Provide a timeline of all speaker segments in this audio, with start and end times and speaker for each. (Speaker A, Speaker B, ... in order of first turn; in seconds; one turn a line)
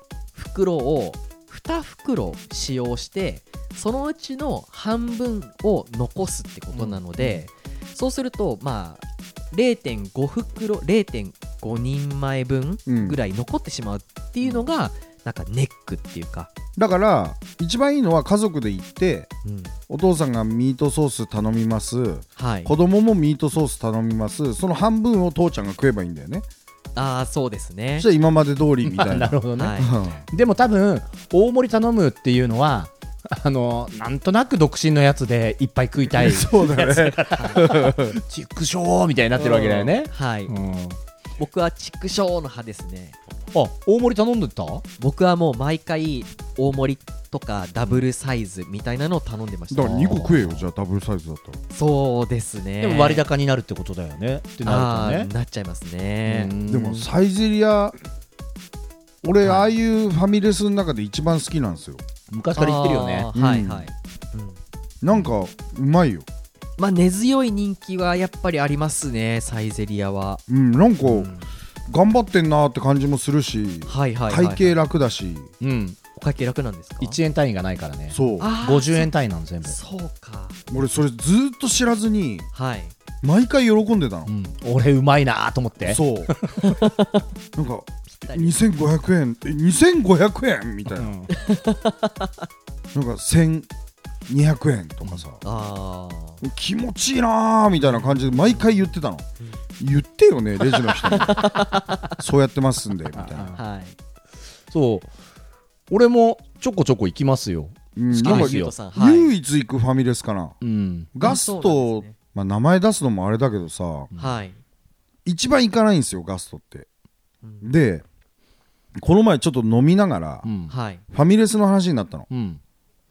Speaker A: 0.3-16.5
Speaker B: 6.7-7.4
Speaker C: 12.9-13.2
Speaker C: 16.8-19.3
Speaker A: 19.4-19.7
Speaker C: 19.9-26.4
Speaker A: 22.4-22.7
Speaker A: 26.9-28.1
Speaker C: 28.0-30.2
Speaker B: 28.8-41.0
Speaker A: 29.6-29.9
Speaker C: 36.1-38.2
Speaker A: 37.3-37.6
Speaker C: 39.4-39.9
Speaker A: 40.0-40.5
Speaker A: 41.4-43.2
Speaker B: 43.5-44.8
Speaker A: 45.0-50.0
Speaker C: 49.7-51.6
Speaker B: 49.8-50.6
Speaker A: 51.7-53.2
Speaker B: 52.8-55.3
Speaker A: 54.6-56.5
Speaker B: 56.3-57.0
Speaker C: 56.7-57.9
Speaker C: 59.2-62.0
Speaker A: 59.4-59.7
Speaker B: 62.3-63.3
Speaker A: 62.5-64.6
Speaker C: 63.3-63.9
Speaker C: 65.0-66.2
Speaker A: 66.8-70.4
Speaker C: 70.5-71.3
Speaker A: 71.0-71.5
Speaker C: 71.9-75.5
Speaker A: 73.9-74.8
Speaker B: 75.6-76.0
Speaker A: 76.1-77.2
Speaker B: 77.0-79.8
Speaker C: 78.1-78.5
Speaker A: 78.4-79.1
Speaker A: 79.6-80.6
Speaker C: 80.7-82.5
Speaker A: 82.5-82.9
Speaker C: 83.2-84.3
Speaker B: 84.3-86.7
Speaker C: 85.8-86.3
Speaker A: 86.6-87.2
Speaker C: 87.5-91.1
Speaker A: 88.1-88.5
Speaker B: 90.9-91.3
Speaker A: 91.3-92.3
Speaker C: 92.9-93.7
Speaker C: 94.3-95.4
Speaker A: 95.4-96.4
Speaker C: 96.4-99.2
Speaker A: 97.9-98.9
Speaker C: 99.8-101.5
Speaker A: 101.1-102.2
Speaker C: 102.2-103.5
Speaker B: 103.2-103.6
Speaker A: 103.5-103.9
Speaker B: 104.7-105.1
Speaker B: 105.9-108.7
Speaker C: 108.0-110.5
Speaker A: 108.2-109.3
Speaker B: 110.6-111.1
Speaker C: 111.1-114.1
Speaker A: 111.2-112.1
Speaker A: 114.2-114.6
Speaker C: 115.2-116.9
Speaker C: 117.6-118.0
Speaker C: 119.0-120.5
Speaker B: 120.4-120.7
Speaker A: 120.7-121.0
Speaker C: 121.1-122.3
Speaker B: 122.3-122.6